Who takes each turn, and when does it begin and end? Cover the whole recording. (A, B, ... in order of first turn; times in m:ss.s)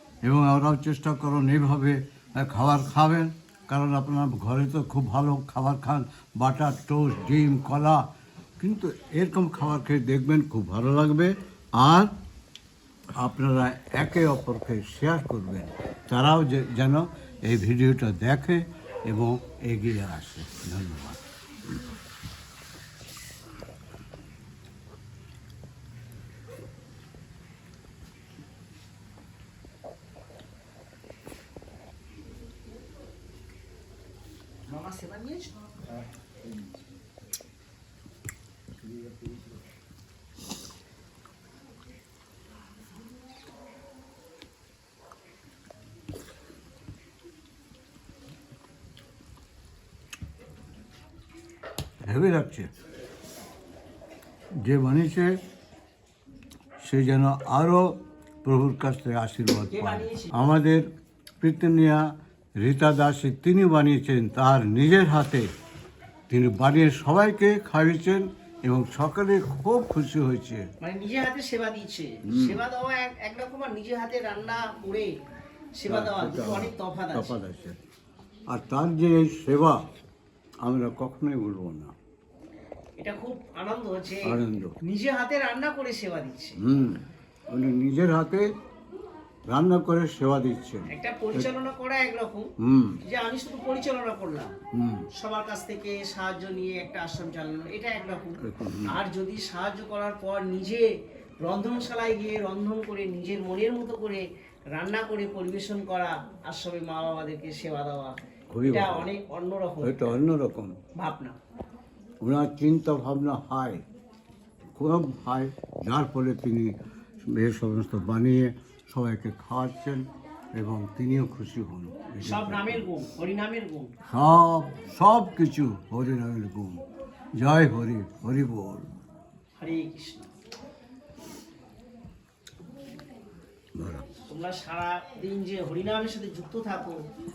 0:00.2-0:08.0 A
0:08.6-0:12.1 A
0:13.1-0:21.2 A
0:34.7-0:35.6 B
0:52.0-0:52.7 A
0:54.6-0:55.4 A
0:56.8-1:00.8 A
0:59.7-1:00.3 B
1:01.4-1:02.1 A
1:02.6-1:05.5 A
1:06.3-1:10.7 A
1:10.8-1:15.1 B
1:12.3-1:12.6 A
1:15.7-1:17.3 B
1:15.8-1:17.8 A
1:18.5-1:19.8 A
1:20.6-1:21.9 A
1:23.0-1:24.3 B
1:24.2-1:24.7 A
1:24.8-1:26.6 B
1:26.6-1:28.5 A
1:29.5-1:31.5 A
1:30.9-1:32.5 B
1:32.6-1:33.0 A
1:33.0-1:34.5 B
1:34.7-1:35.0 A
1:35.2-1:40.9 B
1:38.4-1:38.9 A
1:41.4-1:50.2 B
1:48.5-1:49.1 A
1:49.8-1:50.7 A
1:51.0-1:51.4 B
1:52.2-1:53.8 A
1:54.7-2:02.8 A
2:02.2-2:03.9 B
2:04.1-2:06.8 A
2:07.4-2:08.9 A
2:09.6-2:10.3 B
2:13.8-2:14.0 A
2:14.3-2:17.0 B